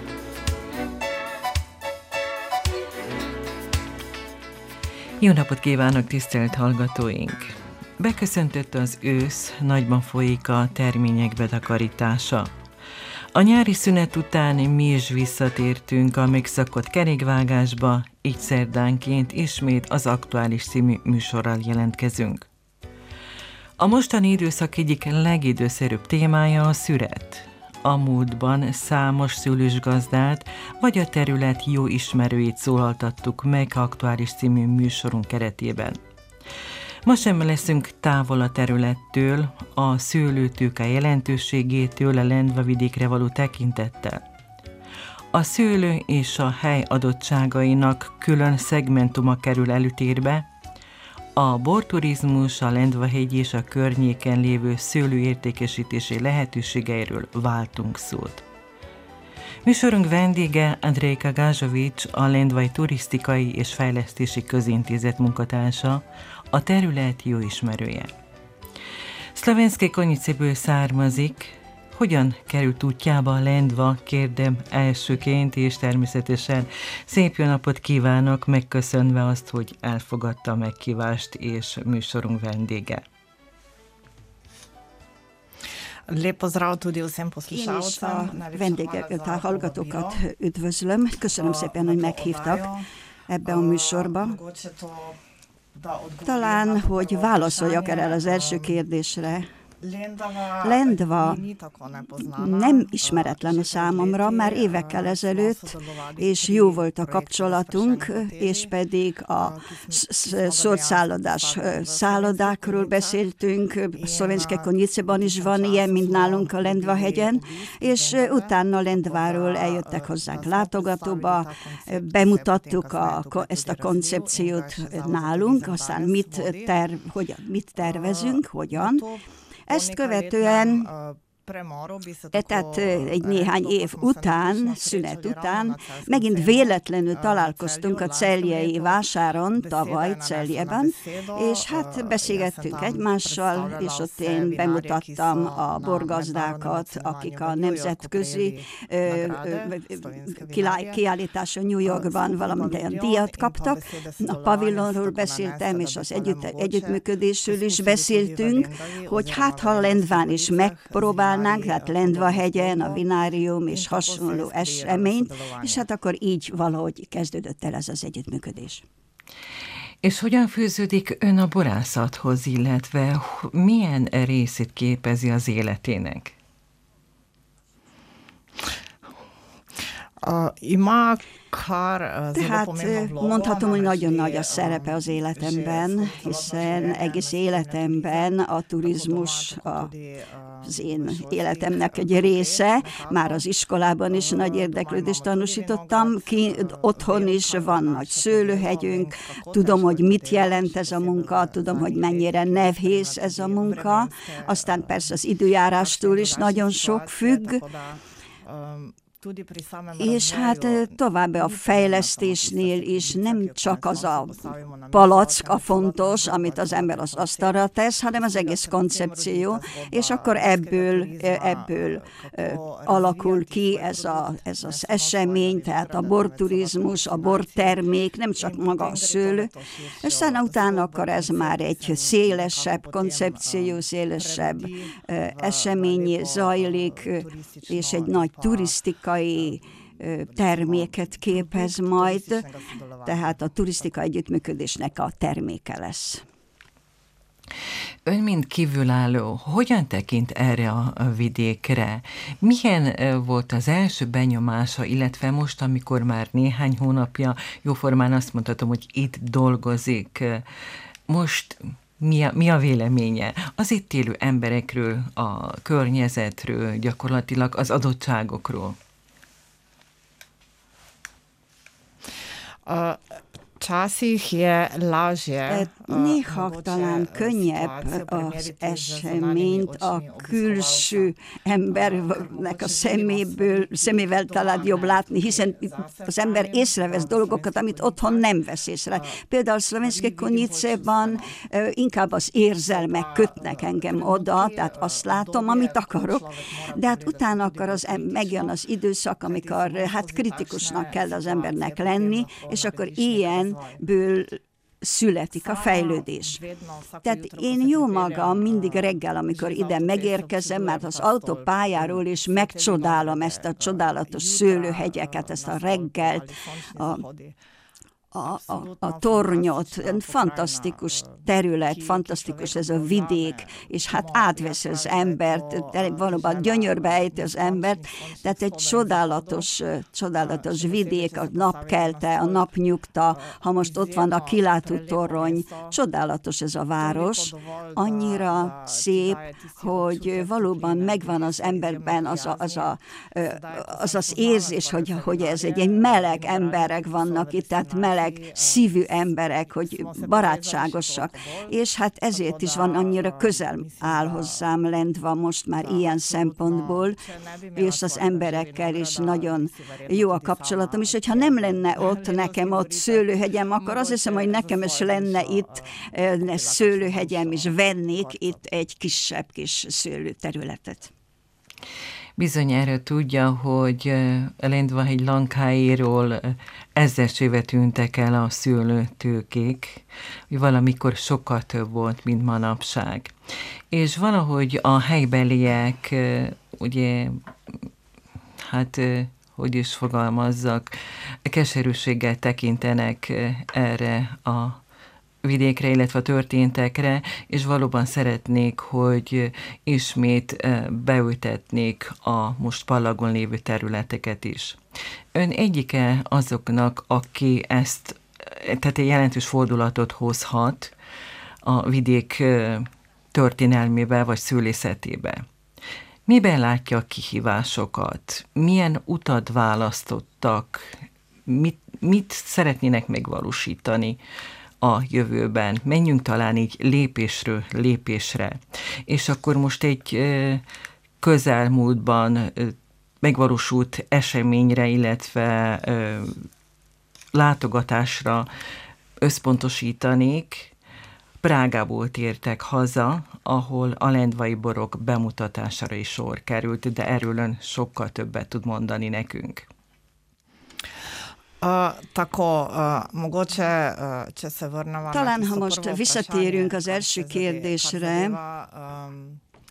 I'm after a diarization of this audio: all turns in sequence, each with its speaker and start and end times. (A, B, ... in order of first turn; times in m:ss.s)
0:05.2-0:12.5 A
0:13.4-0:22.5 A
0:23.8-0:36.0 A
0:37.0-0:44.3 A
0:45.3-0:50.5 A
0:51.4-0:58.4 A
0:59.6-1:08.1 A
1:09.4-1:23.0 A
1:26.1-1:30.2 B
1:27.5-1:32.7 C
1:31.4-1:32.8 B
1:33.3-1:34.4 C
1:33.4-1:35.2 B
1:35.8-1:38.8 B
1:36.2-1:39.5 C
1:39.8-1:48.7 B
1:40.6-1:41.4 C
1:42.2-2:09.0 C
1:49.4-1:53.2 B
1:54.0-2:06.8 B
2:07.8-2:19.0 B
2:09.7-2:10.9 C
2:12.3-2:48.8 C
2:19.6-2:31.0 B
2:31.8-2:43.1 B
2:43.7-2:45.8 B
2:50.0-2:56.3 A
3:00.2-3:13.4 B
3:02.4-3:09.9 C
3:10.6-3:27.6 C
3:14.1-3:25.0 B
3:25.8-3:37.6 B
3:30.0-3:34.4 C
3:34.9-4:02.4 C
3:38.1-3:47.8 B
3:48.4-3:58.8 B
4:00.2-4:03.8 B
4:03.1-4:06.2 C
4:08.0-4:20.5 A
4:21.1-4:28.8 A
4:32.6-4:41.1 B
4:35.5-5:06.4 C
4:41.7-4:48.4 B
4:49.8-4:51.4 B
4:52.7-4:58.6 B
4:59.2-5:03.8 B
5:05.4-5:17.4 B
5:07.0-5:17.0 C
5:18.1-5:57.0 C
5:18.4-5:29.5 B
5:30.2-5:32.6 B
5:33.1-5:35.7 B
5:36.8-5:51.6 B
5:52.1-5:54.4 B
5:55.6-6:08.4 B
5:57.6-6:10.9 C
6:12.2-6:23.2 A
6:23.7-6:27.6 A
6:28.4-6:34.6 A
6:35.2-6:44.6 A
6:45.2-6:50.7 A
6:51.4-6:55.2 A
6:56.1-7:04.0 A
7:04.6-7:10.4 A
7:11.0-7:16.3 A
7:17.1-7:18.3 A
7:19.0-7:20.5 A
7:21.2-7:29.5 A
7:31.4-7:39.2 B
7:34.9-7:38.2 C